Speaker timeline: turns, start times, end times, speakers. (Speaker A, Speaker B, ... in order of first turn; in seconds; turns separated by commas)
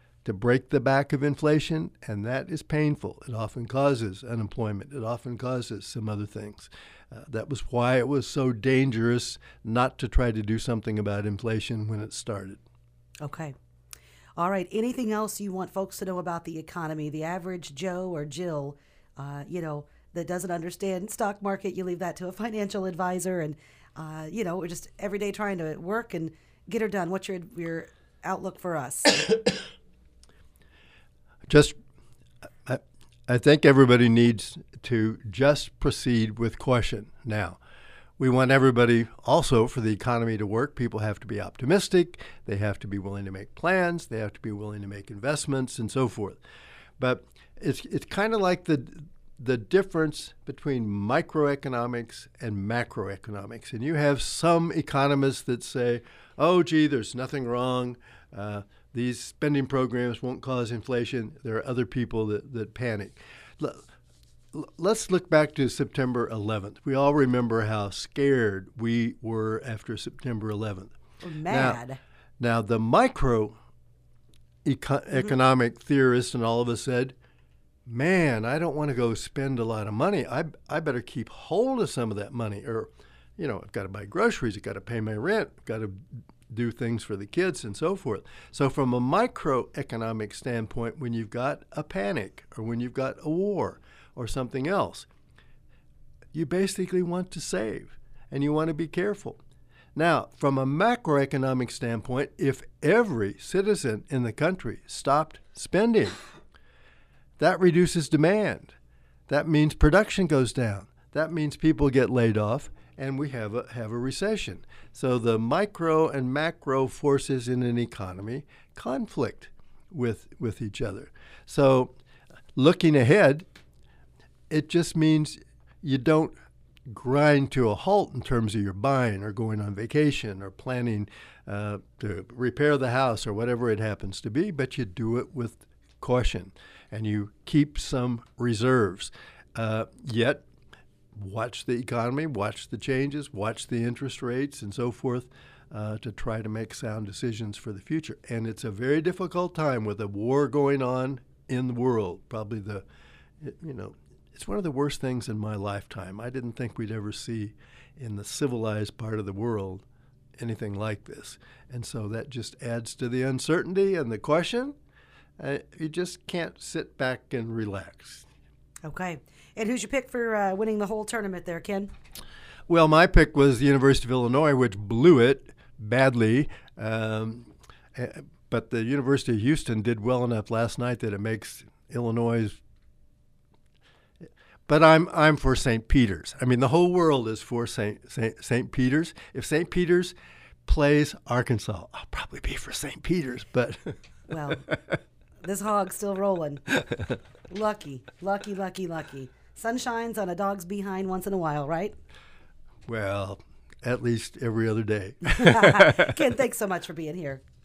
Speaker A: 0.2-12.6, Speaker B: 13.2-13.5, Speaker B: 14.4-29.4, Speaker A: 31.5-31.8, Speaker A: 32.7-37.6, Speaker A: 38.2-46.4, Speaker A: 47.0-63.9, Speaker A: 64.5-70.9, Speaker B: 71.2-72.0, Speaker A: 71.5-71.8, Speaker A: 72.4-73.6, Speaker A: 74.7-77.1, Speaker A: 77.9-85.9, Speaker A: 86.5-95.1, Speaker A: 96.3-99.4, Speaker A: 100.0-106.2, Speaker A: 107.4-108.8, Speaker A: 109.3-121.9, Speaker A: 122.6-123.5, Speaker A: 124.5-126.4, Speaker A: 126.9-140.4, Speaker A: 141.2-152.8, Speaker A: 153.4-159.8, Speaker A: 160.4-164.7, Speaker A: 165.4-168.3, Speaker B: 168.8-171.9, Speaker A: 172.7-182.6, Speaker A: 184.7-190.2, Speaker A: 190.7-194.0, Speaker B: 194.3-194.7, Speaker B: 195.4-196.8, Speaker B: 197.5-201.9, Speaker A: 202.9-206.0, Speaker B: 205.2-207.4